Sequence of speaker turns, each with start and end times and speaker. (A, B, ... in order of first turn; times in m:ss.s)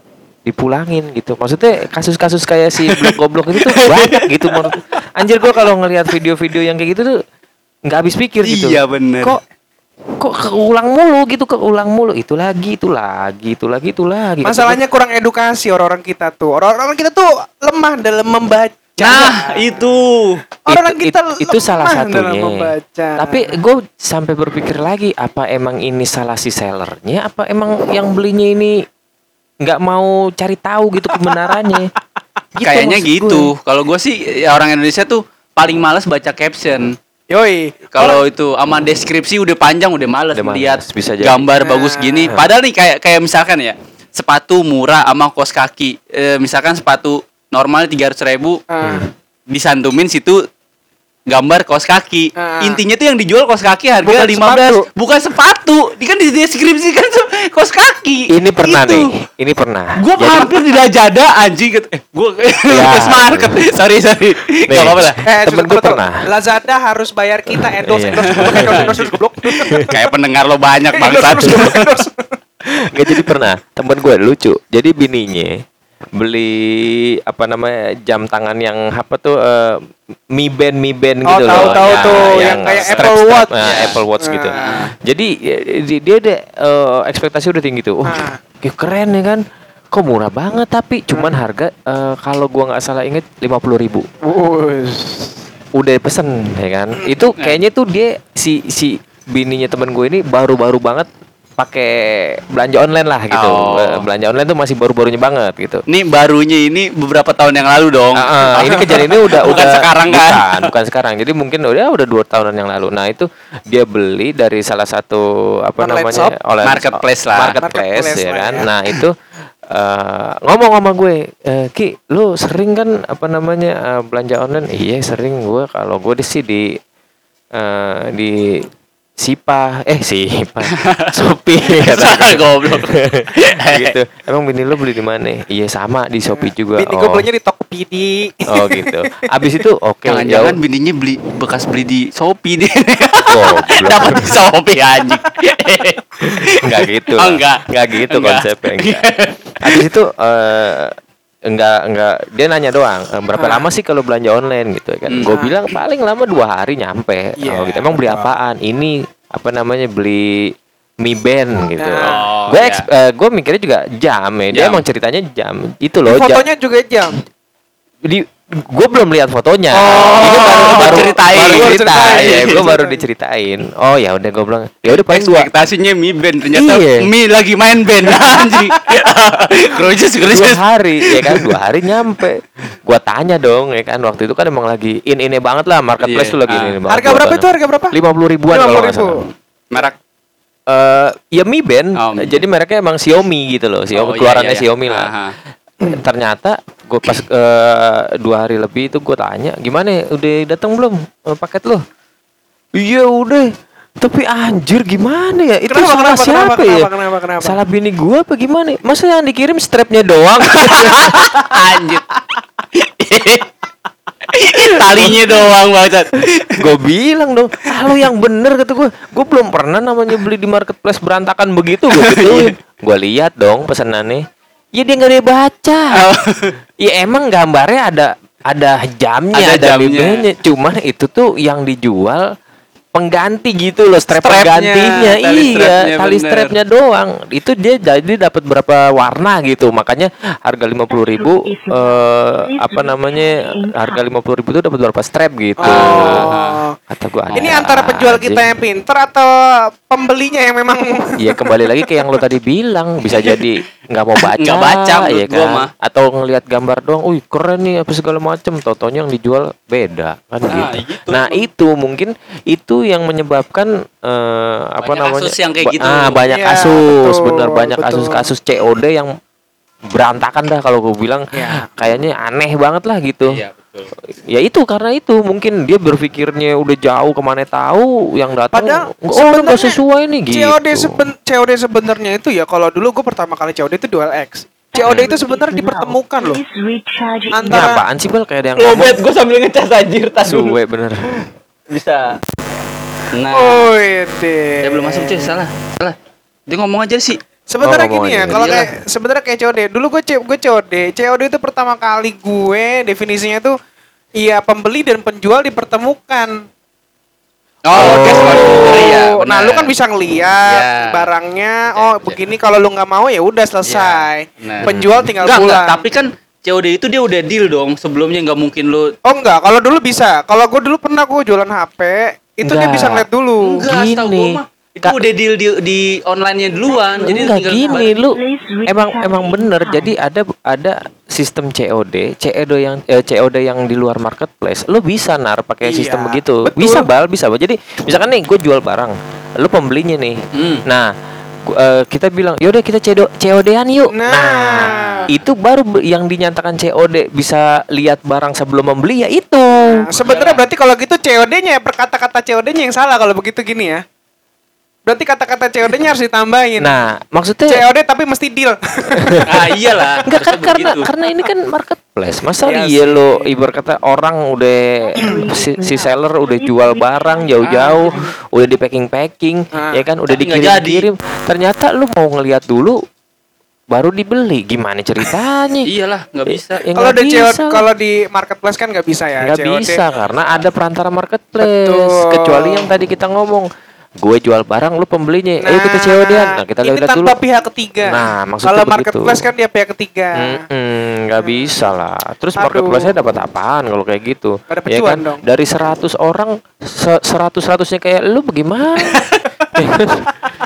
0:00.4-0:07.2 A
0:03.6-0:04.2 B
0:07.8-0:09.4 A
0:08.4-0:09.4 B
0:10.2-0:14.8 A
0:14.4-0:19.9 C
0:19.0-0:20.4 B
0:20.6-0:23.6 C
0:20.7-0:28.8 A
0:29.6-0:31.9 A
0:32.5-0:33.5 A
0:32.6-0:37.0 B
0:37.3-0:38.2 C
0:37.9-0:48.6 B
0:40.3-0:41.5 A
0:41.6-0:42.3 C
0:48.7-0:49.1 C
0:48.8-0:49.1 A
0:49.5-0:50.4 B
0:51.3-0:59.0 B
0:52.4-0:52.8 C
0:54.0-0:54.8 C
0:58.3-1:00.5 A
1:00.0-1:05.2 B
1:02.7-1:03.6 A
1:04.7-1:06.2 A
1:05.2-1:10.0 C
1:07.5-1:08.9 A
1:08.3-1:11.8 B
1:11.0-1:12.3 C
1:12.8-1:15.6 A
1:13.0-1:13.3 C
1:16.2-1:19.8 A
1:20.3-1:34.0 A
1:21.3-1:24.7 C
1:21.5-1:24.0 B
1:24.6-1:24.9 B
1:28.0-1:28.4 C
1:34.2-1:35.3 C
1:35.7-1:45.8 A
1:43.3-1:44.0 B
1:45.9-1:50.7 B
1:48.2-1:59.1 A
1:55.8-1:56.3 C
1:56.6-1:57.6 B
1:57.6-1:58.7 C
1:59.7-2:06.8 A
2:07.5-2:08.7 A
2:09.2-2:17.2 A
2:10.7-2:11.1 B
2:11.7-2:13.9 B
2:16.3-2:19.3 C
2:18.5-2:20.6 A
2:20.1-2:29.8 B
2:23.2-2:24.4 A
2:26.2-2:29.1 A
2:29.6-2:31.0 A
2:31.5-2:46.4 A
2:33.4-2:33.6 C
2:35.1-2:35.3 B
2:35.3-2:35.6 C
2:37.4-2:38.3 C
2:41.8-2:42.2 C
2:42.0-2:42.8 B
2:44.5-2:44.8 B
2:46.1-2:47.2 C
2:48.0-2:55.5 A
2:49.7-2:52.6 B
2:50.4-2:53.0 C
2:55.0-3:01.6 B
2:56.5-2:57.1 A
2:58.2-2:59.0 C
3:00.3-3:09.2 A
3:06.0-3:06.8 B
3:06.9-3:08.0 C
3:08.5-3:09.2 C
3:10.7-3:15.1 A
3:12.0-3:12.4 B
3:13.9-3:15.3 B
3:15.8-3:21.8 A
3:22.8-3:26.9 A
3:25.7-3:27.6 C
3:27.4-3:31.3 A
3:30.5-3:32.1 B
3:32.7-3:33.5 B
3:34.3-3:36.6 B
3:34.9-3:35.2 A
3:36.6-3:44.2 A
3:42.0-3:42.5 B
3:44.7-3:46.0 A
3:45.9-3:46.5 B
3:46.8-3:52.2 A
3:49.3-3:50.2 B
3:52.9-4:06.3 A
3:54.2-3:56.5 B
3:54.2-3:54.5 C
4:00.9-4:04.0 D
4:05.6-4:06.8 C
4:05.6-4:06.6 B
4:06.9-4:08.5 A
4:07.3-4:07.6 B
4:07.3-4:11.6 C
4:11.2-4:29.1 A
4:14.3-4:15.7 B
4:20.5-4:21.4 B
4:24.8-4:26.2 B
4:26.2-4:28.3 C
4:29.9-4:33.4 A
4:31.3-4:31.7 C
4:33.3-4:33.9 B
4:34.3-4:41.1 A
4:38.5-4:39.8 C
4:40.3-4:46.4 C
4:44.7-4:47.7 D
4:47.3-4:47.8 C
4:47.5-4:49.0 A
4:48.6-4:50.6 B
4:50.2-4:51.2 A
4:51.7-4:52.2 B
4:53.1-4:53.7 B
4:53.3-4:55.4 C
4:54.6-4:56.0 B
4:56.5-4:57.2 B
4:57.5-5:03.6 C
4:57.6-4:58.4 A
4:58.3-4:58.7 B
5:04.2-5:06.4 C
5:07.6-5:09.7 B
5:07.8-5:08.8 A
5:07.9-5:15.8 C
5:10.4-5:11.0 B
5:11.7-5:12.3 B
5:13.6-5:14.7 B
5:14.6-5:15.1 A
5:15.2-5:18.9 B
5:19.0-5:23.6 C
5:22.4-5:23.0 A
5:23.4-5:27.9 B
5:23.6-5:25.0 A
5:27.0-5:40.9 A
5:27.1-5:29.9 D
5:35.6-5:36.9 C
5:40.3-5:40.6 B
5:41.5-5:49.8 A
5:43.9-5:45.0 C
5:44.7-5:45.0 B
5:49.7-5:53.8 C
5:50.0-5:50.4 B
5:54.8-5:56.8 C
5:56.6-5:57.6 A
5:57.5-5:59.3 C
5:59.0-5:59.2 A
5:59.3-6:00.9 B
6:00.0-6:12.8 A
6:02.4-6:03.4 C
6:04.8-6:08.1 D
6:07.4-6:07.9 B
6:09.5-6:09.8 C
6:10.1-6:10.9 B
6:13.7-6:15.7 A
6:15.6-6:16.6 B
6:16.3-6:17.6 A
6:16.7-6:19.8 C
6:19.2-6:23.5 A
6:21.4-6:22.7 C
6:24.0-6:27.1 A
6:25.4-6:30.4 C
6:27.8-6:29.2 A
6:30.1-6:39.0 A
6:31.2-6:31.6 C
6:32.4-6:32.9 C
6:34.5-6:35.2 C
6:39.0-6:39.2 B
6:39.5-6:40.1 A